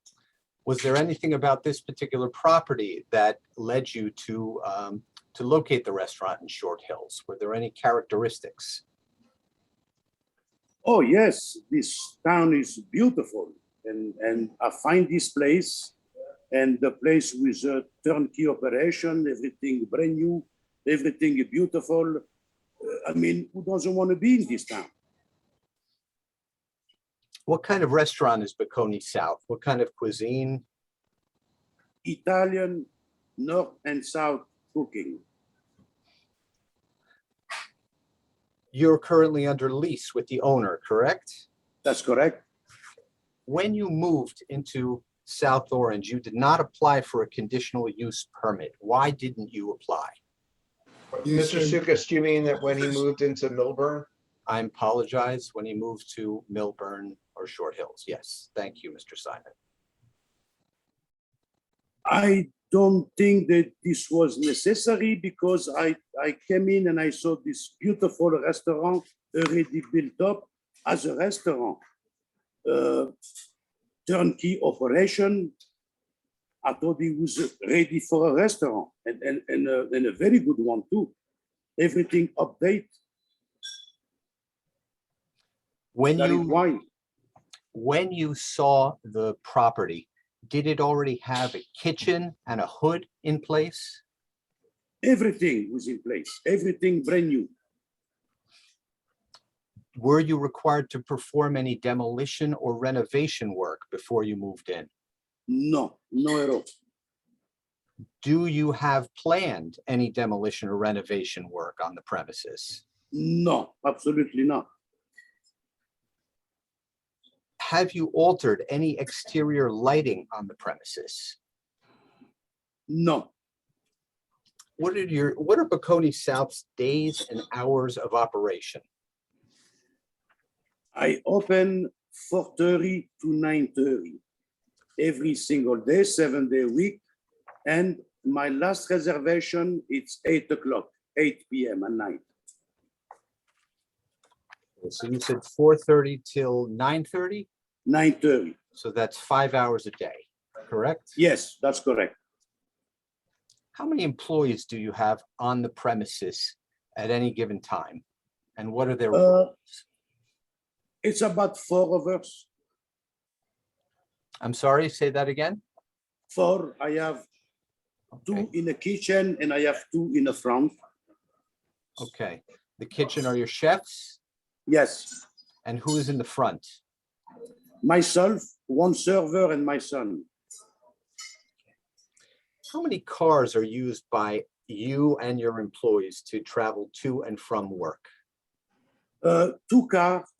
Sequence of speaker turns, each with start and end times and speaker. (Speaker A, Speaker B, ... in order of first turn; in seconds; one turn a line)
Speaker A: 0.7-8.8
Speaker B: 10.8-15.9
Speaker B: 16.5-22.2
Speaker B: 22.8-24.9
Speaker A: 27.5-30.6
Speaker B: 32.0-32.9
Speaker B: 33.4-35.2
Speaker A: 38.7-41.4
Speaker B: 41.8-42.4
Speaker A: 43.5-50.1
Speaker C: 51.1-54.1
Speaker A: 54.5-59.5
Speaker B: 62.1-71.8
Speaker B: 72.7-73.1
Speaker B: 74.1-75.5
Speaker B: 76.6-81.1
Speaker B: 81.8-82.9
Speaker A: 86.0-86.6
Speaker B: 86.2-86.8
Speaker A: 87.7-94.0
Speaker B: 95.0-97.5
Speaker A: 100.0-104.9
Speaker B: 105.5-106.7
Speaker A: 108.2-112.8
Speaker B: 113.1-114.7
Speaker A: 117.6-121.4
Speaker B: 122.9-123.3
Speaker A: 124.8-128.8
Speaker B: 130.9-134.2
Speaker B: 135.0-137.0
Speaker B: 137.7-142.2
Speaker A: 144.8-147.5
Speaker B: 147.9-148.6
Speaker A: 148.8-151.2
Speaker B: 151.2-152.1
Speaker A: 153.7-158.0
Speaker A: 158.6-159.6
Speaker B: 159.1-159.5
Speaker B: 161.0-162.5
Speaker A: 164.4-165.6
Speaker B: 166.3-167.2
Speaker B: 168.2-170.8
Speaker A: 172.0-174.2
Speaker B: 174.7-175.2
Speaker A: 175.7-176.7
Speaker B: 177.8-180.3
Speaker A: 182.7-188.1
Speaker B: 189.2-190.3